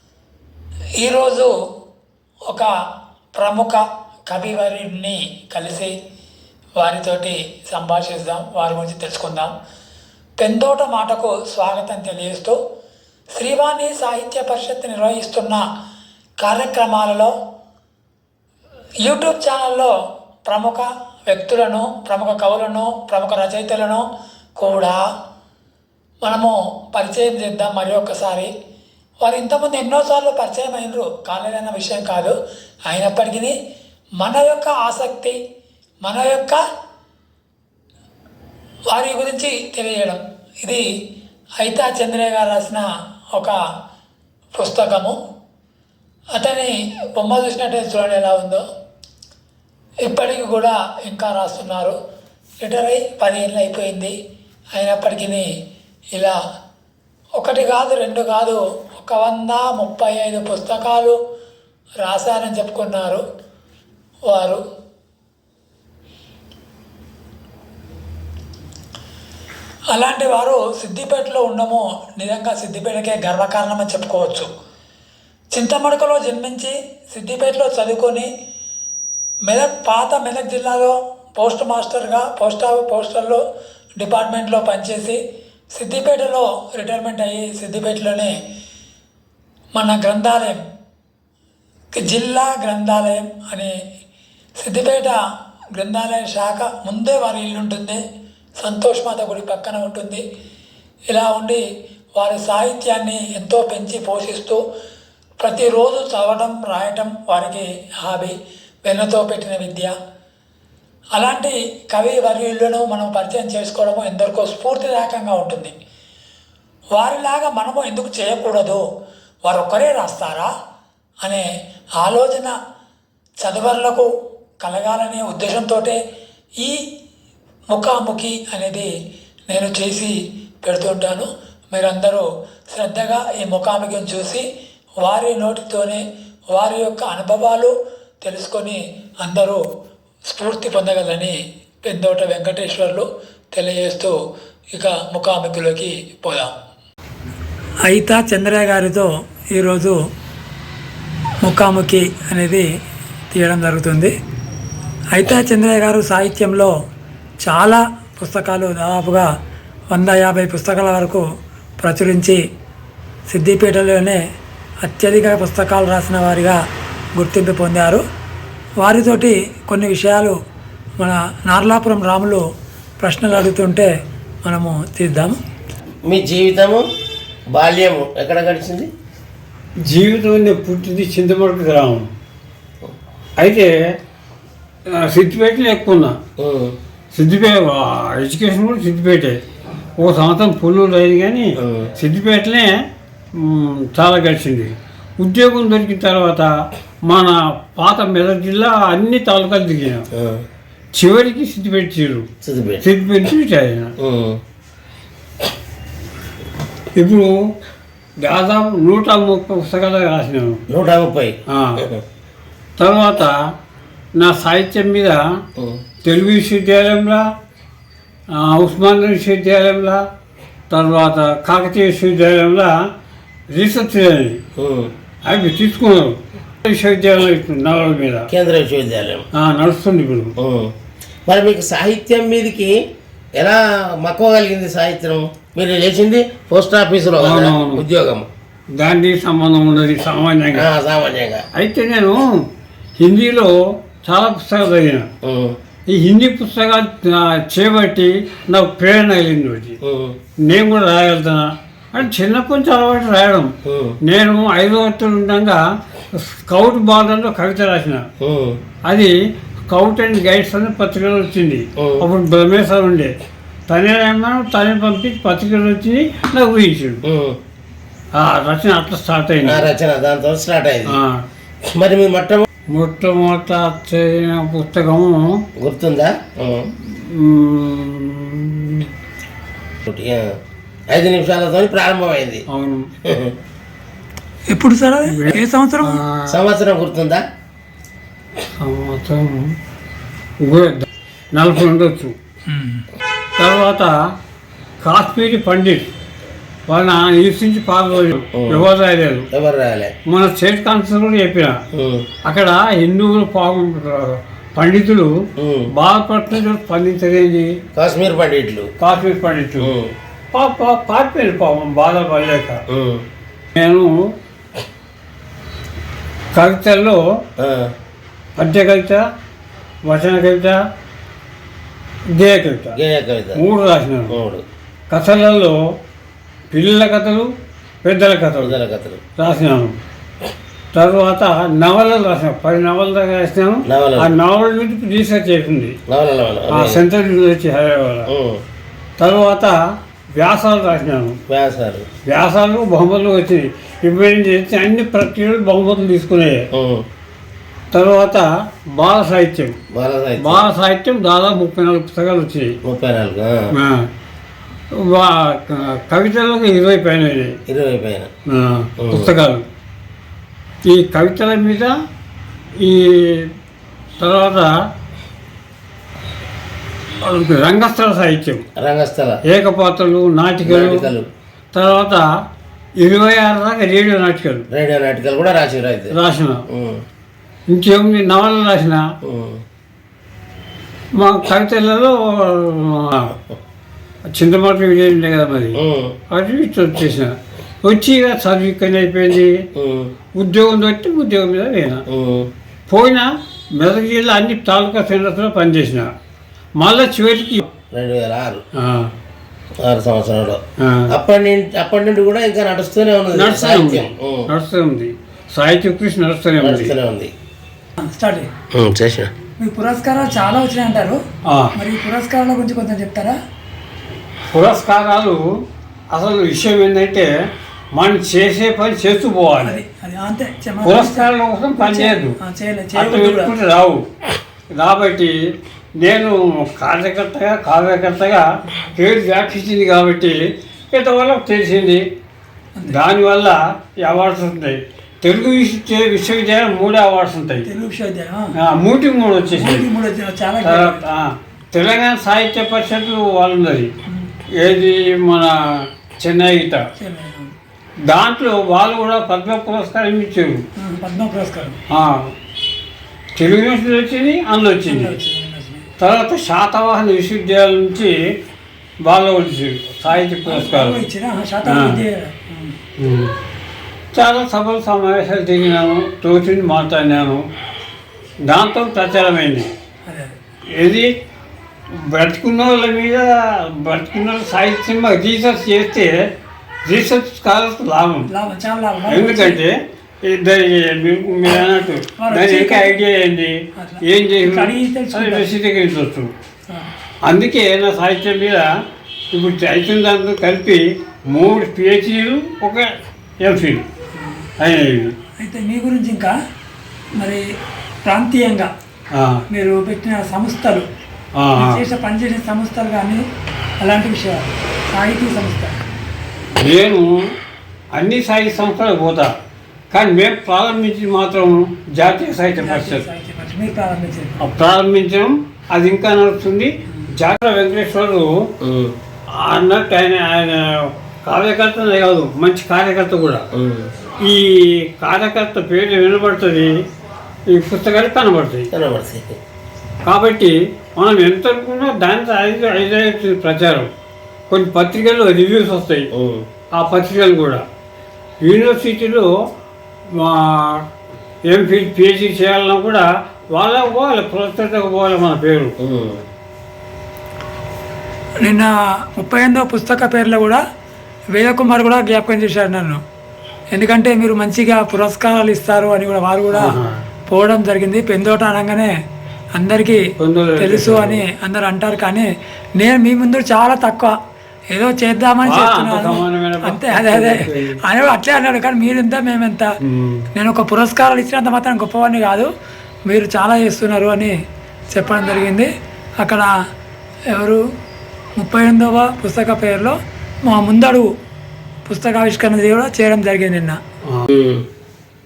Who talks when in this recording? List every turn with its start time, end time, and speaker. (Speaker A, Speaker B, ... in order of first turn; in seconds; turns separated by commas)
Speaker A: 1.0-1.5, Speaker A: 3.3-5.9, Speaker A: 6.8-9.5, Speaker A: 10.4-12.6, Speaker A: 13.3-15.6, Speaker A: 16.4-17.3, Speaker A: 19.0-19.9, Speaker A: 20.5-24.0, Speaker A: 24.6-25.0, Speaker A: 26.2-28.5, Speaker A: 29.2-33.5, Speaker A: 34.2-35.4, Speaker A: 36.0-36.6, Speaker A: 38.9-40.8, Speaker A: 41.6-42.8, Speaker A: 44.5-45.1, Speaker A: 46.3-48.6, Speaker A: 50.0-52.0, Speaker A: 52.6-54.1, Speaker A: 54.7-55.5, Speaker A: 57.4-61.2, Speaker A: 62.0-63.2, Speaker A: 64.3-64.6, Speaker A: 69.9-74.5, Speaker A: 75.5-78.3, Speaker A: 79.5-83.4, Speaker A: 84.0-85.2, Speaker A: 85.7-88.3, Speaker A: 89.7-90.6, Speaker A: 91.9-93.7, Speaker A: 94.6-95.2, Speaker A: 95.7-98.0, Speaker A: 98.6-100.2, Speaker A: 101.1-101.6, Speaker A: 102.2-104.6, Speaker A: 105.4-109.9, Speaker A: 111.1-115.7, Speaker A: 116.9-118.8, Speaker A: 119.4-120.5, Speaker A: 122.0-122.5, Speaker A: 123.4-124.1, Speaker A: 124.6-126.0, Speaker A: 127.7-128.9, Speaker A: 129.5-134.4, Speaker A: 135.0-139.6, Speaker A: 140.3-144.1, Speaker A: 144.7-146.5, Speaker A: 147.9-149.9, Speaker A: 151.4-152.7, Speaker A: 153.3-154.1, Speaker A: 155.1-156.7, Speaker A: 157.4-159.3, Speaker A: 159.9-161.2, Speaker A: 161.8-162.4, Speaker A: 163.3-164.2, Speaker A: 164.8-166.6, Speaker A: 167.2-168.0, Speaker A: 168.8-170.3, Speaker A: 171.0-172.4, Speaker A: 173.0-173.9, Speaker A: 174.4-175.4, Speaker B: 176.1-176.9, Speaker B: 177.5-178.9, Speaker C: 179.8-182.1, Speaker C: 183.4-183.7, Speaker C: 184.9-186.2, Speaker B: 186.4-186.8, Speaker C: 187.1-189.4, Speaker C: 190.0-192.7, Speaker B: 191.6-191.9, Speaker C: 193.3-196.5, Speaker C: 197.1-200.1, Speaker B: 200.1-200.4, Speaker C: 200.9-202.3, Speaker B: 202.4-202.8, Speaker C: 202.8-203.9, Speaker B: 204.0-204.4, Speaker C: 207.0-207.3, Speaker C: 208.2-210.6, Speaker B: 210.7-212.0, Speaker C: 211.5-211.8, Speaker C: 212.8-213.4, Speaker C: 214.2-215.2, Speaker C: 216.0-217.3, Speaker C: 218.3-220.0, Speaker C: 220.7-222.8, Speaker C: 223.5-224.4, Speaker B: 224.6-224.9, Speaker C: 225.2-228.3, Speaker B: 228.3-229.2, Speaker C: 229.4-230.3, Speaker B: 230.4-230.7, Speaker B: 231.3-232.8, Speaker B: 233.4-238.3, Speaker C: 237.2-237.9, Speaker C: 238.8-240.7, Speaker B: 240.5-241.4, Speaker C: 241.6-242.4, Speaker C: 243.0-245.1, Speaker B: 245.2-245.6, Speaker C: 245.9-249.8, Speaker B: 249.8-250.2, Speaker C: 250.4-253.5, Speaker B: 253.7-254.0, Speaker C: 254.0-255.6, Speaker C: 256.1-258.1, Speaker B: 258.2-258.6, Speaker C: 258.9-259.1, Speaker C: 259.7-263.1, Speaker B: 261.8-262.1, Speaker C: 263.7-267.0, Speaker B: 267.0-267.4, Speaker C: 268.2-269.7, Speaker B: 269.4-271.0, Speaker C: 270.9-271.2, Speaker B: 271.7-272.4, Speaker C: 272.7-275.4, Speaker B: 275.6-276.7, Speaker C: 276.8-278.9, Speaker B: 279.9-280.3, Speaker B: 280.9-282.4, Speaker C: 282.5-282.9, Speaker B: 283.1-283.4, Speaker A: 284.5-286.0, Speaker C: 285.1-286.4, Speaker B: 286.3-287.2, Speaker C: 288.6-289.6, Speaker C: 290.4-292.1, Speaker A: 292.5-292.9, Speaker C: 293.4-293.9, Speaker C: 294.8-295.9, Speaker C: 296.7-299.3, Speaker B: 298.3-298.7, Speaker B: 299.3-299.9, Speaker C: 300.1-301.6, Speaker B: 301.7-302.1, Speaker C: 302.2-305.1, Speaker B: 305.4-305.7, Speaker C: 305.7-307.6, Speaker B: 307.7-308.7, Speaker C: 308.8-309.7, Speaker B: 309.6-309.9, Speaker C: 310.3-312.6, Speaker B: 312.7-313.1, Speaker C: 313.6-314.1, Speaker C: 316.3-317.0, Speaker B: 317.4-317.7, Speaker C: 318.4-319.0, Speaker C: 319.9-320.6, Speaker C: 322.2-322.8, Speaker B: 322.7-323.4, Speaker C: 323.4-324.1, Speaker B: 324.1-324.4, Speaker C: 324.9-325.6, Speaker C: 326.5-327.3, Speaker C: 327.8-328.6, Speaker B: 328.4-329.0, Speaker C: 329.2-329.8, Speaker C: 330.7-335.8, Speaker B: 333.7-334.1, Speaker B: 335.9-336.8, Speaker C: 336.5-338.1, Speaker B: 338.1-338.4, Speaker C: 339.0-339.6, Speaker C: 340.1-341.2, Speaker B: 341.3-341.9, Speaker C: 342.1-346.5, Speaker B: 346.5-346.9, Speaker C: 347.7-349.6, Speaker B: 349.7-350.5, Speaker C: 350.2-352.5, Speaker B: 352.6-353.5, Speaker C: 353.6-353.9, Speaker C: 354.7-357.4, Speaker B: 357.5-358.1, Speaker C: 358.3-359.4, Speaker B: 358.8-359.1, Speaker C: 360.7-361.7, Speaker C: 362.6-363.3, Speaker C: 364.0-364.6, Speaker C: 367.0-368.4, Speaker B: 368.6-369.2, Speaker C: 369.3-370.9, Speaker B: 370.4-371.1, Speaker C: 371.5-372.1, Speaker C: 372.8-374.4, Speaker B: 374.5-375.9, Speaker C: 375.9-376.4, Speaker B: 376.5-376.8, Speaker C: 377.5-378.9, Speaker B: 379.0-379.4, Speaker C: 380.9-383.1, Speaker C: 384.1-385.6, Speaker B: 385.6-386.0, Speaker C: 386.1-389.4, Speaker B: 389.6-389.9, Speaker C: 390.1-391.8, Speaker B: 391.9-392.3, Speaker C: 392.7-395.9, Speaker C: 396.6-397.5, Speaker B: 397.7-398.4, Speaker C: 398.6-398.9, Speaker B: 399.6-404.3, Speaker C: 400.6-400.9, Speaker C: 403.1-406.7, Speaker B: 406.4-407.1, Speaker A: 407.8-408.3, Speaker B: 408.5-409.1, Speaker A: 409.4-411.0, Speaker A: 411.6-413.1, Speaker C: 414.3-415.2, Speaker C: 415.9-417.1, Speaker C: 417.8-419.6, Speaker A: 419.4-423.3, Speaker C: 420.6-422.1, Speaker C: 422.8-423.8, Speaker C: 424.6-425.1, Speaker C: 425.8-431.8, Speaker C: 432.7-437.4, Speaker A: 437.4-438.4, Speaker C: 438.4-439.7, Speaker A: 439.3-440.8, Speaker C: 440.4-443.7, Speaker C: 444.4-446.6, Speaker A: 446.8-447.3, Speaker C: 447.9-450.4, Speaker A: 450.6-451.6, Speaker C: 451.7-452.1, Speaker C: 453.1-455.0, Speaker A: 454.7-455.7, Speaker C: 455.8-457.9, Speaker C: 458.8-460.8, Speaker A: 459.9-462.6, Speaker C: 461.4-461.8, Speaker C: 462.8-463.1, Speaker C: 463.9-467.2, Speaker C: 468.2-469.5, Speaker A: 469.9-470.1, Speaker C: 470.5-470.9, Speaker C: 471.7-476.1, Speaker C: 476.6-478.1, Speaker A: 478.1-479.4, Speaker C: 478.9-486.1, Speaker A: 481.9-482.8, Speaker A: 483.6-485.3, Speaker C: 487.1-488.5, Speaker C: 489.1-492.7, Speaker C: 493.2-493.7, Speaker A: 493.9-494.2, Speaker C: 494.4-494.9, Speaker A: 495.2-496.1, Speaker A: 497.9-498.5, Speaker C: 498.9-499.2, Speaker A: 499.3-500.7, Speaker C: 501.2-501.6, Speaker A: 501.4-503.0, Speaker A: 503.6-505.6, Speaker C: 506.4-506.9, Speaker C: 507.8-509.1, Speaker C: 509.7-512.8, Speaker A: 512.4-514.2, Speaker C: 514.2-518.3, Speaker B: 518.4-518.7, Speaker C: 519.1-523.2, Speaker B: 523.3-523.7, Speaker C: 524.0-526.6, Speaker C: 527.3-528.5, Speaker B: 528.5-529.2, Speaker C: 529.8-533.7, Speaker C: 534.3-535.9, Speaker B: 535.9-536.3, Speaker C: 536.5-537.4, Speaker C: 538.2-539.1, Speaker C: 539.9-540.6, Speaker C: 541.3-545.5, Speaker B: 545.6-546.0, Speaker A: 548.2-550.4, Speaker A: 551.1-552.8, Speaker A: 553.5-556.5, Speaker C: 556.3-556.8, Speaker A: 557.1-558.7, Speaker A: 559.4-559.8, Speaker C: 560.0-561.0, Speaker A: 560.4-562.1, Speaker A: 562.6-563.9, Speaker A: 564.5-569.5, Speaker C: 565.2-567.6, Speaker C: 569.6-570.0, Speaker A: 570.1-572.3, Speaker A: 572.9-574.1, Speaker A: 574.7-575.5, Speaker A: 576.0-576.3, Speaker A: 577.1-577.4, Speaker A: 578.2-580.9, Speaker A: 581.6-583.6, Speaker B: 584.1-584.5